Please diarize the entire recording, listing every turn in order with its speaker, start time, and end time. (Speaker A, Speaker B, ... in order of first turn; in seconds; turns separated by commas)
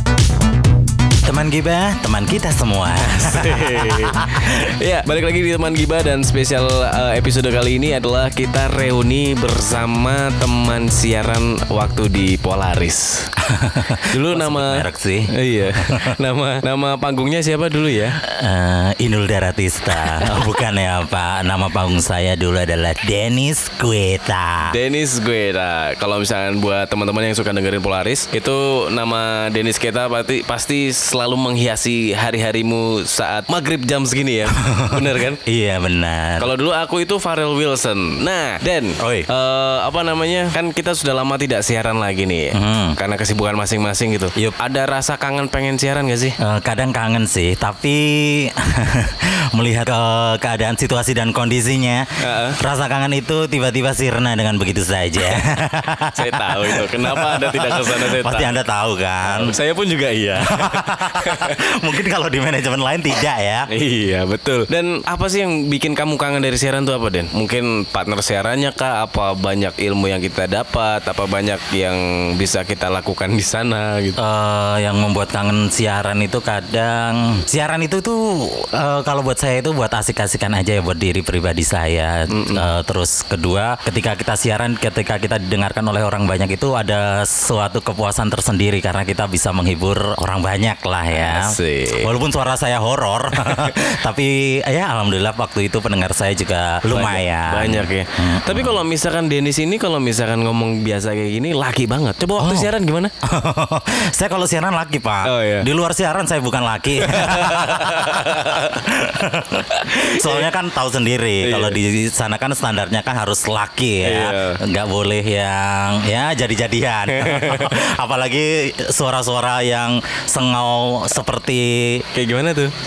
Speaker A: 1.2-4.5, Speaker B: 3.0-13.3, Speaker A: 13.4-16.1, Speaker B: 14.1-18.2, Speaker A: 18.2-24.7, Speaker B: 20.1-20.4, Speaker B: 24.7-35.4, Speaker A: 34.5-36.5, Speaker B: 36.4-46.4, Speaker A: 39.0-39.3, Speaker A: 42.5-43.0, Speaker A: 46.4-52.1, Speaker B: 52.2-52.6, Speaker A: 52.6-59.5, Speaker B: 56.1-58.5, Speaker B: 59.2-61.6, Speaker A: 60.5-63.7, Speaker B: 63.7-74.2, Speaker A: 74.2-98.8, Speaker B: 82.3-82.7, Speaker B: 91.1-92.1, Speaker B: 93.4-93.8, Speaker B: 96.9-103.1, Speaker A: 102.4-122.1, Speaker B: 105.2-105.7, Speaker B: 107.0-108.8, Speaker B: 109.7-110.5, Speaker B: 111.4-111.8, Speaker B: 114.0-114.6, Speaker B: 117.1-117.8, Speaker B: 122.1-122.7